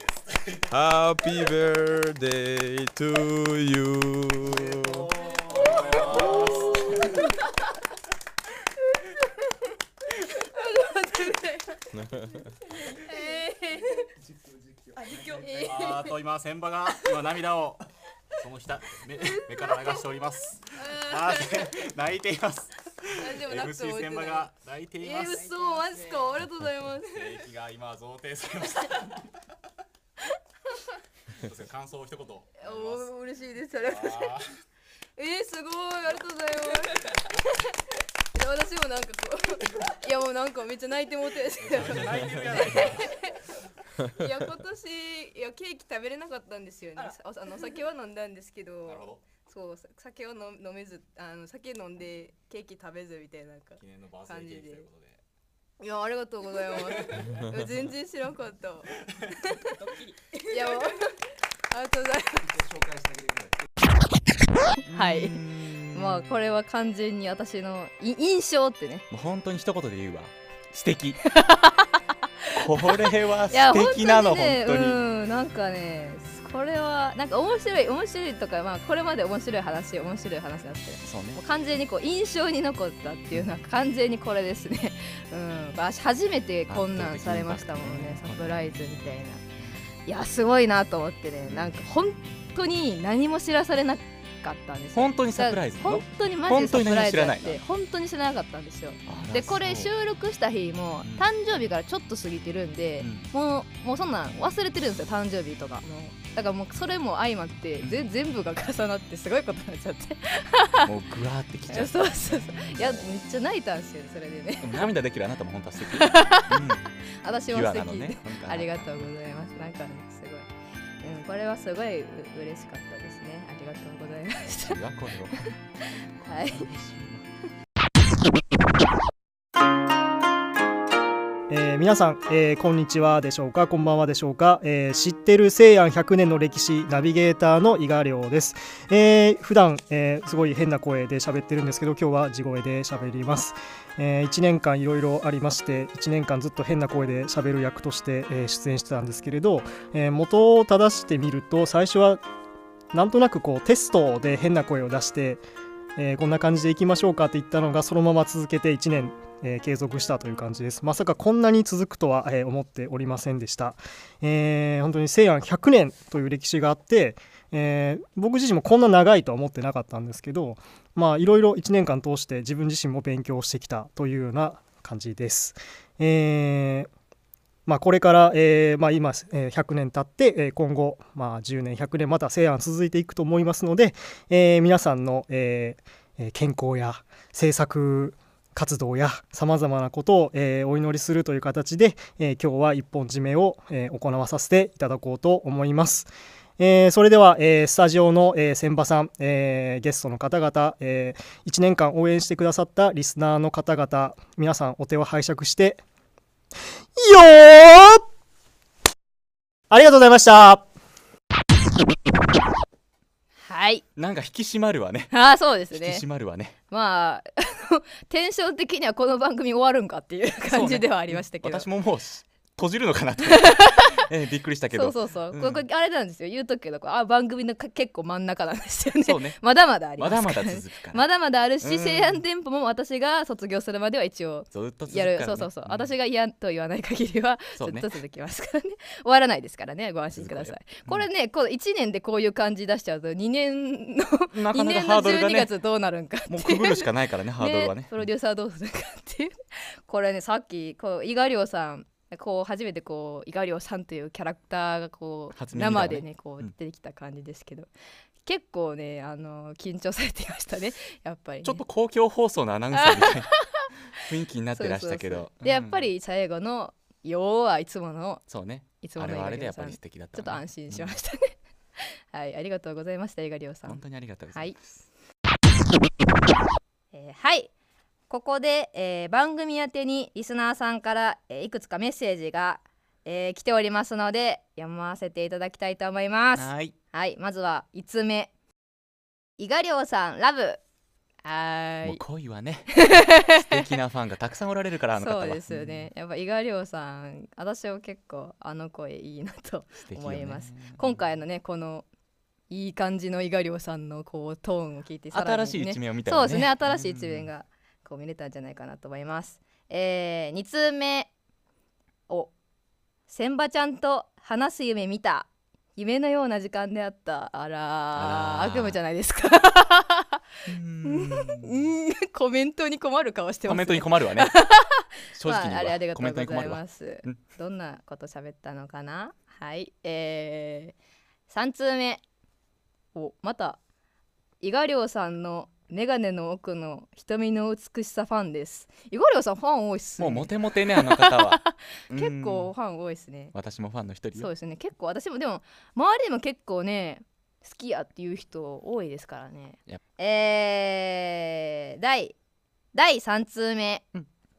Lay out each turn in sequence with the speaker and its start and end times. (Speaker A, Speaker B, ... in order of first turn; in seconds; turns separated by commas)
Speaker A: 0.7-5.1, Speaker B: 5.5-7.0, Speaker B: 10.4-11.8, Speaker B: 12.9-14.1, Speaker B: 15.1-16.2, Speaker C: 15.9-16.8, Speaker D: 16.8-17.6, Speaker C: 17.5-17.8, Speaker B: 19.5-19.9, Speaker D: 19.6-19.8, Speaker B: 20.8-21.7, Speaker D: 21.4-22.6, Speaker B: 23.1-27.4, Speaker C: 23.8-25.3, Speaker C: 27.6-28.5, Speaker D: 27.8-28.6, Speaker C: 31.6-32.4, Speaker B: 32.6-34.4, Speaker B: 35.2-37.6, Speaker B: 38.3-43.4, Speaker C: 41.8-42.0, Speaker D: 42.0-42.5, Speaker B: 44.0-54.9, Speaker C: 53.8-55.1, Speaker B: 55.8-58.9, Speaker B: 60.4-61.1, Speaker B: 61.7-62.5, Speaker D: 64.9-66.2, Speaker B: 64.9-69.0, Speaker D: 69.1-71.3, Speaker B: 71.2-89.4, Speaker D: 72.5-75.0, Speaker D: 81.0-81.4, Speaker D: 86.7-88.5, Speaker B: 90.1-110.9, Speaker D: 91.4-91.8, Speaker D: 94.9-97.6, Speaker D: 99.1-99.9, Speaker D: 103.0-103.3, Speaker D: 110.8-113.1, Speaker B: 111.7-114.9, Speaker D: 114.6-116.9, Speaker B: 115.9-116.6, Speaker B: 117.2-120.5, Speaker D: 117.5-119.1, Speaker B: 121.0-124.8, Speaker D: 124.5-125.6, Speaker D: 126.2-127.2, Speaker B: 126.2-126.7, Speaker E: 131.5-152.2, Speaker E: 152.9-155.4, Speaker E: 155.9-176.9, Speaker E: 177.7-205.8, Speaker E: 207.0-208.0, Speaker E: 209.7-210.6, Speaker B: 213.4-213.8, Speaker D: 213.9-215.1, Speaker B: 215.1-216.0, Speaker D: 215.7-216.5, Speaker B: 216.7-221.7, Speaker D: 220.5-225.6, Speaker B: 223.3-224.0, Speaker B: 224.7-246.9, Speaker D: 229.0-229.4, Speaker D: 230.0-231.0, Speaker D: 231.6-232.2, Speaker D: 234.5-235.9, Speaker D: 237.6-237.9, Speaker D: 240.1-241.1, Speaker D: 244.3-245.5, Speaker D: 246.3-248.0, Speaker B: 247.4-257.7, Speaker D: 255.3-256.5, Speaker B: 258.2-261.6, Speaker D: 261.4-265.9, Speaker B: 262.8-263.7, Speaker B: 264.5-268.2, Speaker D: 268.3-271.0, Speaker B: 268.8-273.8, Speaker D: 273.6-274.7, Speaker B: 274.3-274.6, Speaker B: 276.9-277.5, Speaker B: 278.1-288.3, Speaker D: 286.4-286.7, Speaker B: 289.4-290.6, Speaker B: 291.2-292.0, Speaker D: 291.8-295.9, Speaker B: 292.8-293.5, Speaker B: 295.0-301.9, Speaker D: 299.9-300.9, Speaker B: 302.5-311.1, Speaker D: 305.1-307.3, Speaker B: 313.1-320.2, Speaker D: 317.9-318.8, Speaker D: 320.5-321.6, Speaker B: 320.9-330.7, Speaker D: 323.5-324.4, Speaker D: 325.1-327.2, Speaker B: 331.3-332.0, Speaker B: 332.9-333.6, Speaker B: 334.4-343.3, Speaker D: 340.0-342.5, Speaker D: 343.3-344.3, Speaker B: 344.1-352.1, Speaker B: 352.7-353.9